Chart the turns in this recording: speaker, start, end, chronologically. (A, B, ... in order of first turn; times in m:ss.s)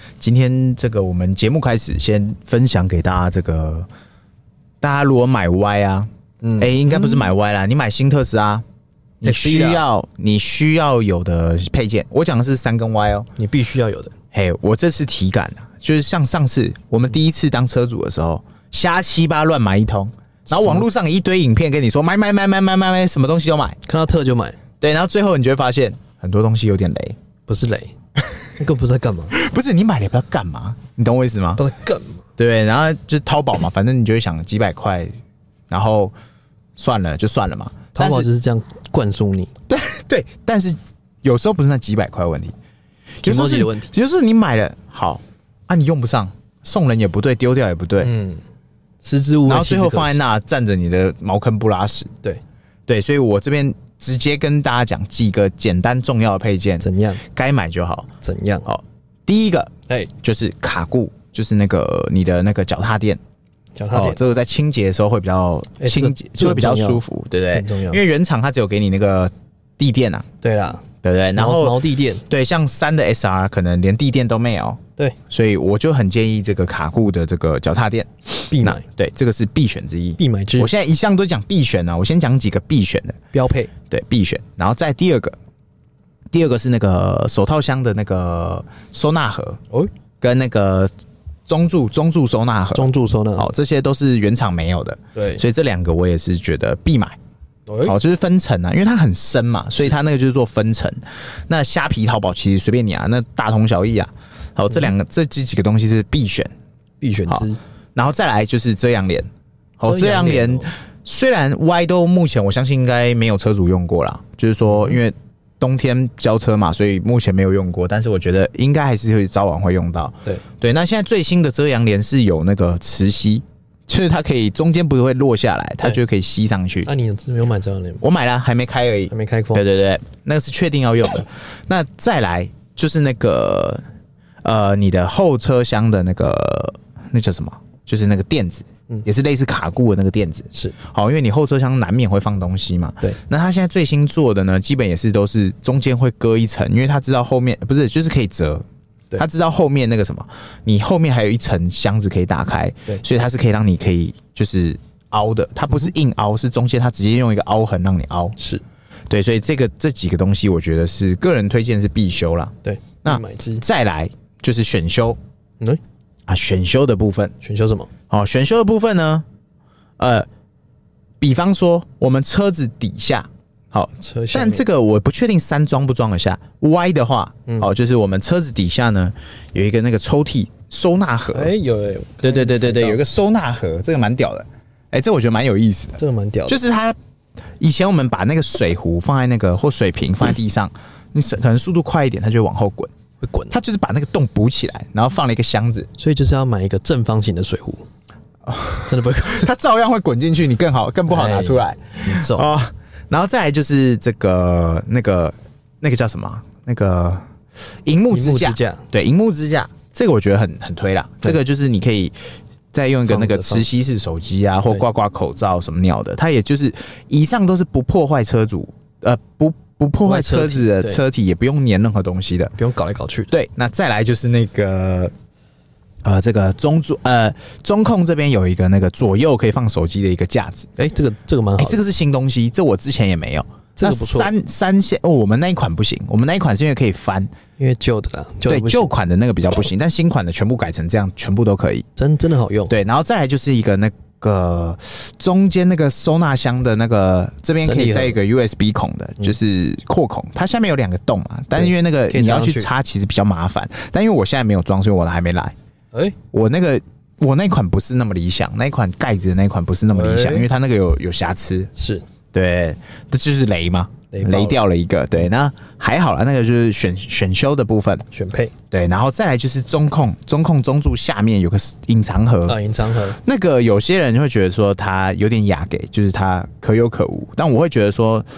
0:00.2-0:03.9 A
0:04.8-0:08.6 A
0:06.4-0:07.2 B
0:09.2-0:13.3 A
0:09.2-0:09.8 B
0:13.4-0:14.1 B
0:14.3-0:23.8 A
0:20.5-0:20.8 B
0:23.9-0:24.6 B
0:24.8-0:27.2 A
0:27.5-0:27.9 B
0:28.6-0:29.4 B
0:29.3-0:31.6 A
0:31.6-0:32.2 B
0:32.4-0:35.1 A
0:35.7-0:36.1 A
0:36.8-0:38.3 A
0:37.9-0:39.5 B
0:39.7-0:42.5 A
0:43.2-0:48.1 A
0:43.2-0:43.9 B
0:48.0-0:48.4 B
0:49.0-0:50.2 B
0:49.5-0:52.1 A
0:52.9-0:58.1 A
0:56.8-0:57.2 B
0:58.2-0:58.7 B
0:58.7-1:03.2 A
1:03.8-1:04.2 B
1:03.9-1:10.3 A
1:05.8-1:08.0 B
1:10.4-1:10.8 B
1:11.0-1:23.2 A
1:11.4-1:12.2 B
1:18.5-1:18.8 B
1:20.2-1:20.7 B
1:23.3-1:23.7 B
1:23.9-1:25.4 A
1:26.3-1:29.6 A
1:30.2-1:30.9 A
1:31.5-1:37.2 A
1:32.7-1:33.5 B
1:35.2-1:35.4 B
1:37.7-1:38.0 B
1:37.8-1:46.5 A
1:47.0-1:47.6 B
1:47.3-1:49.3 A
1:49.8-2:06.9 A
1:49.8-1:50.7 B
1:54.7-1:55.0 B
2:06.9-2:08.0 B
2:08.0-2:13.8 A
2:09.1-2:09.6 B
2:14.4-2:28.6 A
2:29.2-2:38.4 A
2:38.4-2:38.6 B
2:39.1-2:42.5 A
2:42.6-2:43.6 B
2:43.0-2:45.2 A
2:46.3-2:47.3 A
2:47.4-2:47.9 B
2:48.1-2:49.2 A
2:50.0-2:50.3 A
2:51.2-3:01.5 A
2:54.0-2:54.6 B
3:01.3-3:03.0 B
3:02.2-3:07.0 A
3:06.0-3:06.6 B
3:07.6-3:12.9 A
3:13.2-3:13.6 B
3:13.5-3:15.9 A
3:16.0-3:17.8 B
3:18.5-3:27.2 A
3:18.9-3:19.5 B
3:21.1-3:22.5 B
3:27.8-3:32.1 A
3:28.1-3:28.8 B
3:32.7-3:42.5 A
3:33.1-3:33.7 B
3:40.0-3:41.0 B
3:42.6-3:43.3 B
3:43.3-3:45.1 A
3:46.0-3:50.7 A
3:50.8-3:51.8 B
3:51.6-3:57.3 A
3:53.8-3:54.3 B
3:57.6-3:58.9 B
3:58.5-4:01.8 A
4:02.0-4:02.8 B
4:02.7-4:15.6 A
4:07.6-4:08.2 B
4:11.5-4:12.7 B
4:16.3-4:21.7 A
4:19.9-4:20.5 B
4:21.8-4:22.0 B
4:22.3-4:28.0 A
4:24.1-4:24.6 B
4:28.1-4:28.5 B
4:28.7-4:32.6 A
4:32.5-4:33.2 B
4:33.2-4:38.2 A